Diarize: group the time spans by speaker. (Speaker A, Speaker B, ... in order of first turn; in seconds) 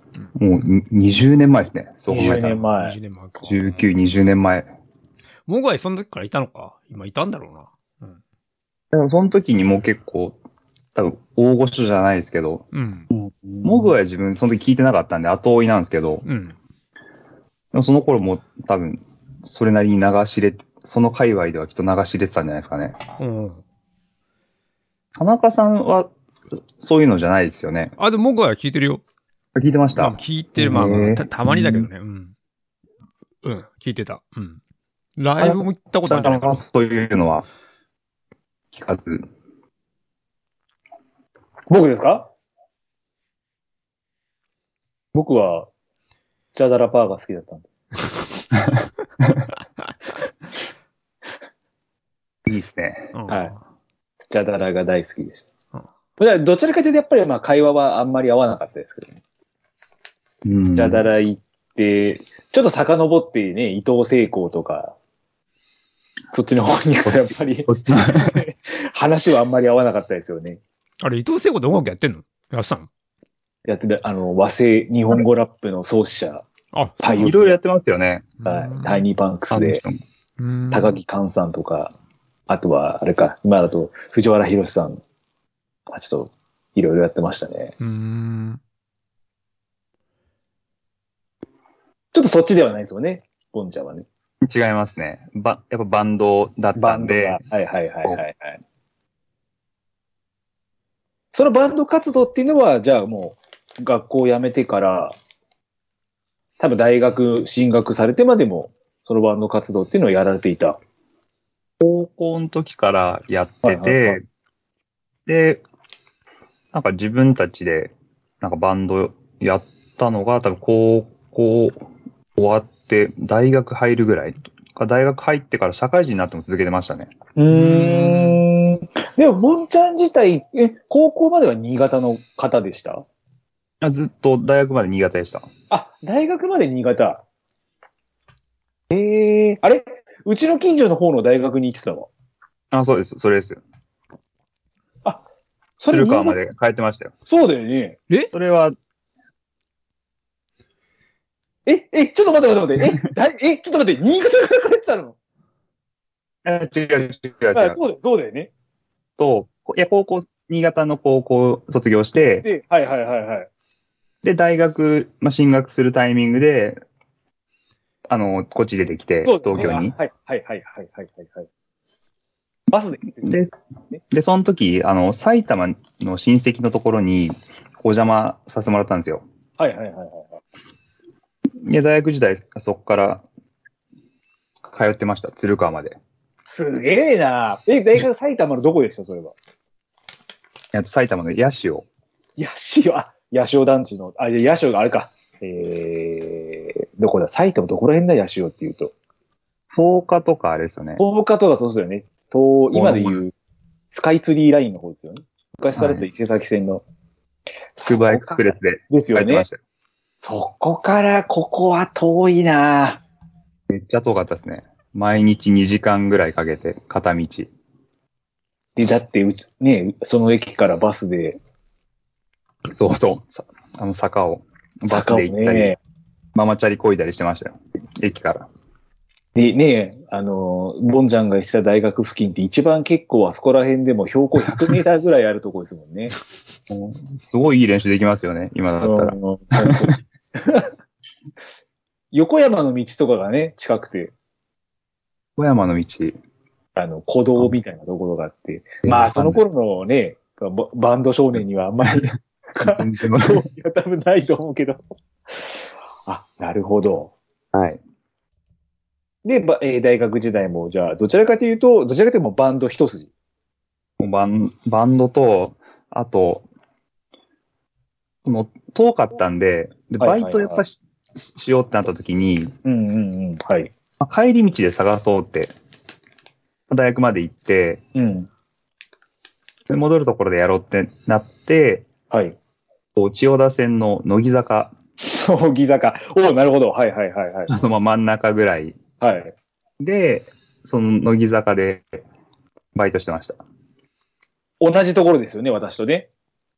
Speaker A: 0.4-2.6, 3.4-4.7, 8.9-10.4, 10.9-12.6, 13.6-16.2, 17.7-23.0, 25.1-26.1, 26.8-27.9, 29.5-31.9, 35.4-37.5, 38.7-39.2, 52.5-53.1, 60.4-61.0, 67.1-68.4, 77.2-78.3, 79.5-80.0, 94.4-97.4, 111.8-114.2, 115.2-115.6, 116.7-121.8, 122.4-127.1, 133.8-135.5, 142.7-143.6, 145.9-147.1, 148.3-148.7, 156.4-157.8, 159.2-162.4, 164.2-166.8, 168.1-169.9, 173.2-173.5, 174.1-179.2, 181.6-183.2, 184.6-186.0, 190.7-191.9, 199.7-201.0, 202.7-203.2, 205.8-206.1, 207.8-209.6, 213.7-217.5, 222.7-225.8, 226.3-228.5, 236.7-239.8, 245.4-246.2, 248.8-249.4, 252.6-253.4, 257.5-257.8, 264.0-266.4, 268.2-272.6, 274.0-275.5, 276.7-277.8, 279.7-281.9, 282.9-284.7, 287.5-288.8, 289.8-292.0, 292.7-293.4
Speaker B: 2.1-3.0, 13.1-13.9, 41.7-42.3, 45.1-45.7, 46.5-47.7, 53.3-53.5, 54.2-55.5, 56.2-59.2, 60.8-65.0, 66.3-70.6, 73.7-76.5, 77.0-77.6, 78.4-79.8, 80.7-81.9, 82.5-85.0, 85.9-87.7, 92.1-94.1, 96.8-98.6, 101.3-105.2, 106.6-110.8, 113.6-114.2, 127.4-133.1, 135.7-137.2, 138.9-142.1, 145.8-146.4, 147.2-148.0, 151.7-155.2, 157.5-158.5, 162.4-163.5, 169.2-171.5, 172.7-174.0, 179.6-180.4, 186.5-189.3, 192.4-198.9, 201.0-203.3, 203.9-206.8, 207.8-209.4, 210.2-213.0, 218.8-221.4, 224.9-225.8, 229.3-236.1, 238.8-240.7, 242.1-244.1, 246.8-254.8, 255.3-257.1, 259.2-263.1, 270.0-270.6, 272.6-273.7, 277.9-278.3, 282.1-282.4, 285.0-287.6, 289.0-289.4, 294.6-296.1
Speaker C: 2.3-3.8, 5.5-8.2, 12.7-13.1, 16.2-16.6, 23.2-23.6, 28.0-29.0, 30.0-32.3, 33.4-34.6, 35.2-36.6, 53.1-53.6, 71.0-72.9, 76.7-77.3, 78.4-79.1, 80.4-81.0, 87.8-88.6, 127.5-128.4